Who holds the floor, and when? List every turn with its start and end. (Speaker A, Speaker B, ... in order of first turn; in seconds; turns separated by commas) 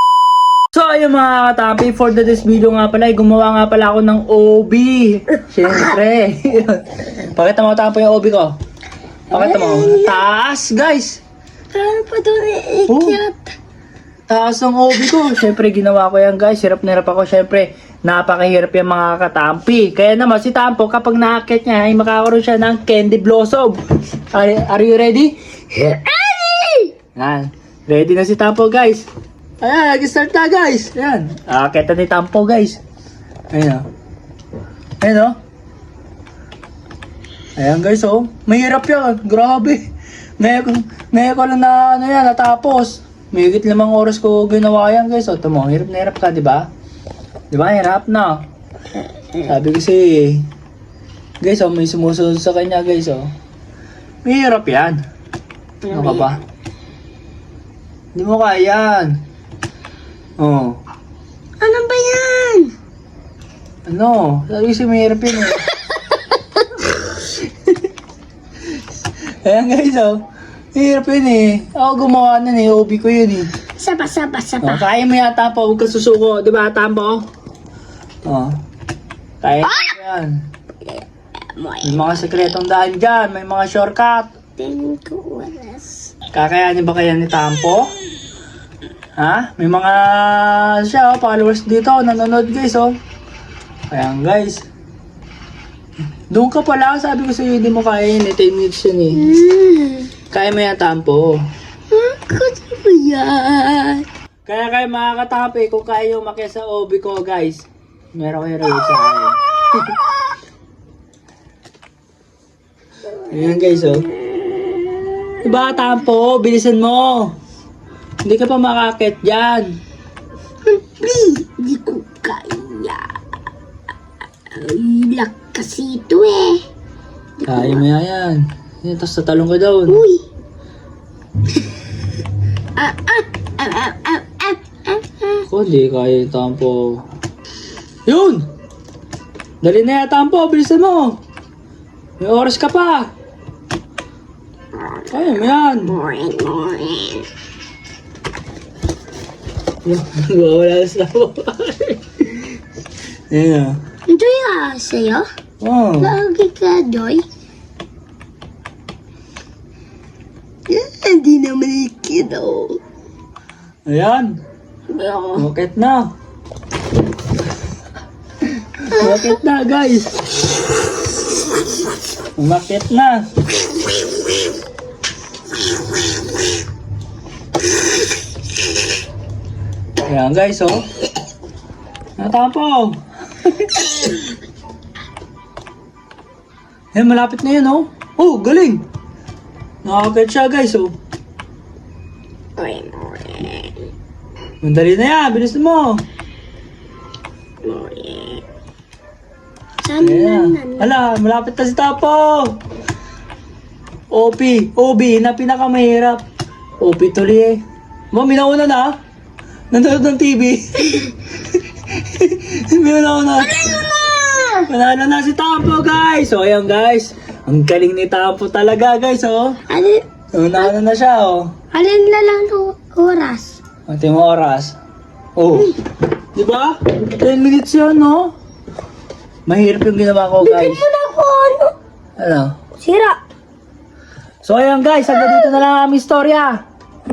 Speaker A: 0.7-8.6, Speaker A: 9.3-11.2, Speaker B: 9.3-10.2, Speaker B: 11.7-13.5, Speaker A: 12.9-13.2, Speaker A: 14.3-25.4, Speaker B: 25.8-26.9, Speaker A: 27.1-29.1, Speaker A: 29.6-32.8, Speaker A: 33.5-33.9, Speaker A: 35.0-35.4, Speaker A: 37.6-39.9, Speaker A: 40.4-46.7, Speaker A: 47.5-48.4, Speaker A: 49.4-50.5, Speaker A: 51.4-53.3, Speaker A: 54.2-55.0, Speaker A: 55.9-56.4, Speaker B: 55.9-56.3, Speaker A: 58.1-59.2, Speaker A: 60.4-60.8, Speaker B: 61.6-62.7, Speaker A: 63.9-65.7, Speaker A: 69.4-73.5, Speaker B: 73.8-74.9, Speaker A: 74.6-77.2, Speaker A: 78.3-78.6, Speaker A: 79.4-80.4, Speaker B: 80.8-82.5, Speaker A: 81.8-84.3, Speaker B: 84.6-86.1, Speaker A: 86.3-87.9, Speaker A: 89.2-93.0, Speaker A: 93.9-94.7, Speaker A: 96.3-99.3, Speaker B: 99.1-100.1, Speaker A: 100.3-101.5, Speaker B: 101.9-104.1, Speaker A: 104.5-110.0, Speaker A: 113.2-114.1, Speaker A: 115.4-117.3, Speaker A: 118.2-119.8, Speaker B: 120.7-123.2, Speaker B: 124.5-126.6, Speaker B: 127.4-127.8, Speaker A: 127.5-130.0, Speaker B: 129.9-130.3, Speaker B: 132.8-135.4, Speaker A: 135.4-137.1, Speaker A: 138.1-138.5, Speaker A: 139.6-141.2, Speaker A: 142.2-143.1, Speaker A: 145.1-146.0, Speaker B: 145.8-147.3, Speaker A: 149.8-152.5, Speaker A: 153.3-153.8, Speaker B: 154.1-155.3, Speaker A: 155.6-156.2, Speaker B: 156.0-157.2, Speaker B: 160.7-162.8, Speaker A: 163.9-164.4, Speaker B: 164.9-165.5, Speaker A: 165.4-166.1, Speaker A: 168.8-170.1, Speaker B: 168.9-169.4, Speaker A: 172.4-173.3, Speaker A: 180.1-180.8, Speaker A: 182.2-183.7, Speaker A: 186.9-188.8, Speaker A: 189.8-190.9, Speaker B: 192.6-193.8, Speaker A: 194.6-196.0, Speaker B: 197.6-198.4, Speaker B: 199.8-200.9, Speaker A: 200.0-202.6, Speaker A: 204.1-206.2, Speaker A: 206.8-209.0, Speaker A: 209.7-211.2, Speaker A: 211.9-213.7, Speaker B: 213.4-214.7, Speaker A: 214.7-219.6, Speaker B: 219.7-220.1, Speaker A: 220.3-221.5, Speaker B: 221.7-223.6, Speaker A: 223.9-224.8, Speaker A: 225.4-225.8, Speaker A: 226.3-228.3, Speaker A: 229.5-230.9, Speaker B: 230.4-231.8, Speaker A: 232.2-232.6, Speaker B: 232.8-233.2, Speaker A: 234.4-236.6, Speaker B: 235.2-235.5